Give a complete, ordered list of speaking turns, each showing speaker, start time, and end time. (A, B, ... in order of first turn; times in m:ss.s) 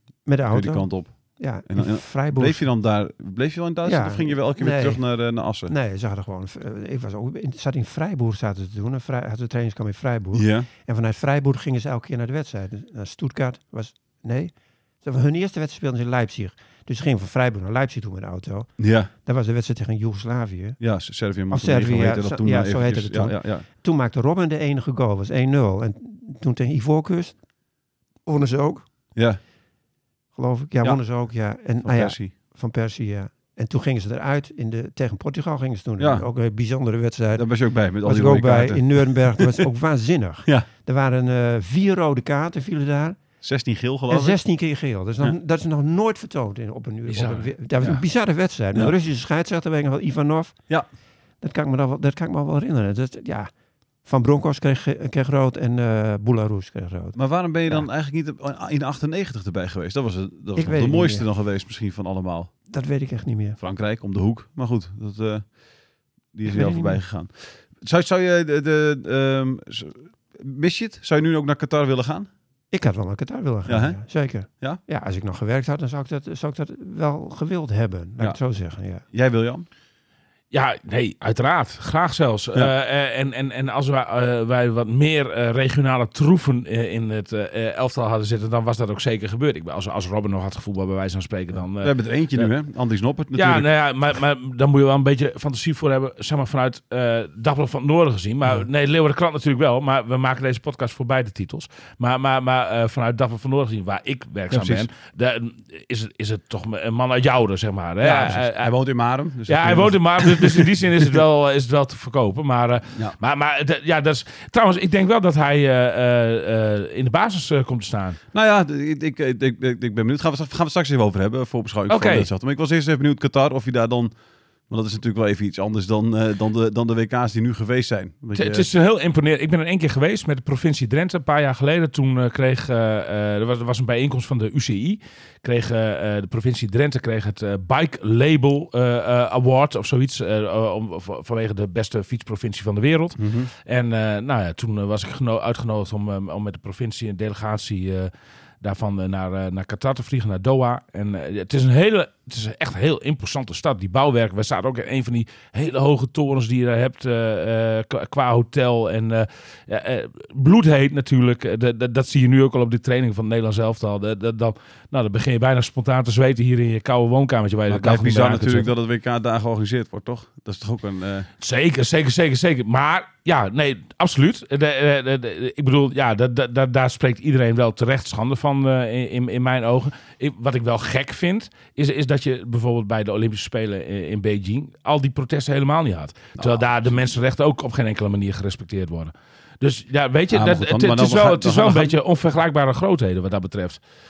0:00.2-0:02.7 A
0:00.5-0:05.7 B
0:03.8-0:05.0 A
0:05.6-0:20.8 A
0:10.3-0:10.7 B
0:18.8-0:19.1 B
0:20.8-0:23.6 B
0:21.5-0:27.4 A
0:28.2-0:28.8 A
0:29.1-0:29.4 B
0:30.3-0:37.5 A
0:31.8-0:32.3 B
0:36.0-0:36.2 B
0:37.4-0:39.6 B
0:38.0-0:43.2 A
0:43.4-0:44.4 B
0:44.1-0:50.6 A
0:47.1-0:47.9 C
0:51.4-0:53.5 A
0:54.0-0:57.9 A
0:57.2-1:02.5 B
1:00.6-1:01.2 A
1:02.7-1:03.6 A
1:03.6-1:05.5 B
1:06.3-1:12.3 B
1:06.4-1:07.0 A
1:12.7-1:19.0 A
1:13.7-1:14.8 B
1:19.1-1:19.6 B
1:20.5-1:32.5 C
1:31.8-1:33.7 B
1:33.3-1:48.7 C
1:44.5-1:44.9 B
1:48.0-1:50.7 B
1:49.5-1:58.2 C
1:58.3-2:04.1 B
2:01.9-2:02.3 C
2:04.7-2:08.7 B
2:08.3-2:48.7 C
2:23.2-2:23.5 B
2:47.7-2:51.3 B
2:51.4-3:13.8 C
3:06.4-3:06.9 B
3:10.3-3:12.0 B